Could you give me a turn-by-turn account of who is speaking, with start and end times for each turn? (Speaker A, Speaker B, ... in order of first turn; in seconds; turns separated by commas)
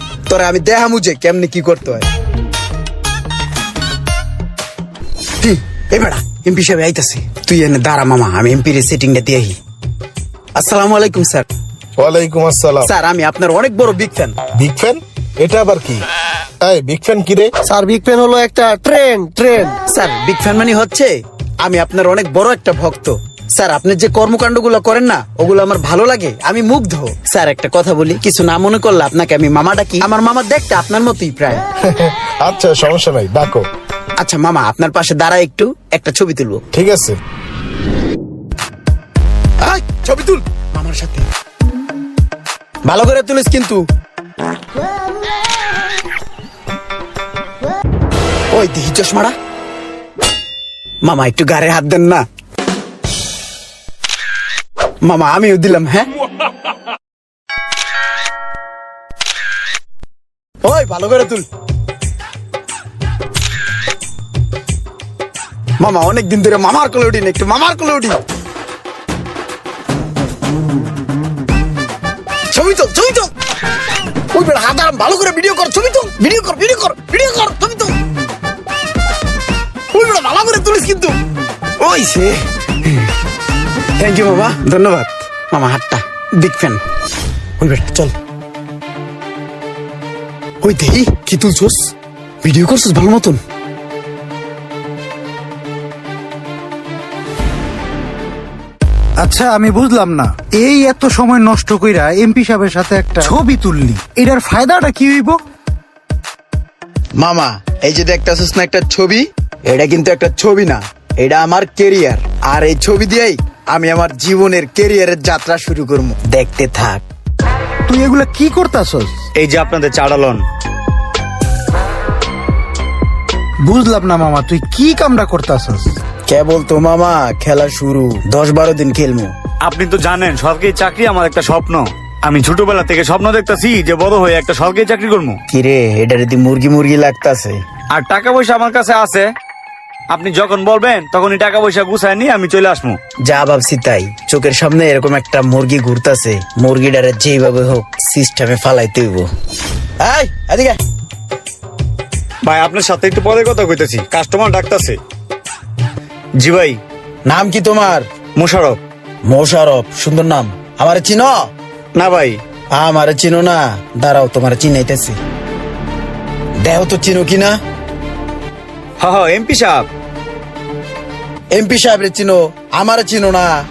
Speaker A: 0.3-2.1, Speaker A: 5.4-9.6, Speaker A: 10.6-11.5, Speaker B: 12.0-12.9, Speaker A: 12.8-14.4, Speaker B: 14.6-16.1, Speaker B: 16.6-17.5, Speaker C: 17.7-19.7, Speaker A: 19.9-21.1, Speaker A: 21.6-31.6, Speaker B: 31.8-33.6, Speaker A: 34.2-36.6, Speaker B: 36.7-37.2, Speaker A: 39.6-41.3, Speaker A: 42.9-43.8, Speaker A: 48.5-49.3, Speaker A: 51.0-52.2, Speaker A: 55.0-56.1, Speaker A: 60.6-61.5, Speaker A: 65.8-68.2, Speaker A: 72.5-73.3, Speaker A: 74.3-77.9, Speaker A: 79.9-81.2, Speaker A: 81.8-83.1, Speaker A: 84.0-86.8, Speaker A: 87.6-88.1, Speaker A: 90.6-91.8, Speaker A: 92.4-93.4, Speaker D: 99.2-105.4, Speaker A: 107.2-117.0, Speaker D: 117.9-119.1, Speaker E: 119.4-120.4, Speaker D: 123.6-126.0, Speaker A: 126.3-129.3, Speaker E: 129.6-135.4, Speaker A: 135.5-137.6, Speaker E: 137.9-139.3, Speaker E: 140.1-143.0, Speaker A: 143.3-149.3, Speaker A: 150.0-150.8, Speaker E: 152.4-155.0, Speaker E: 156.4-156.8, Speaker A: 157.3-158.0, Speaker E: 158.4-158.8, Speaker A: 159.3-161.3, Speaker E: 162.0-162.4, Speaker A: 162.8-165.2, Speaker A: 166.6-167.6, Speaker E: 169.0-169.9, Speaker A: 171.5-173.5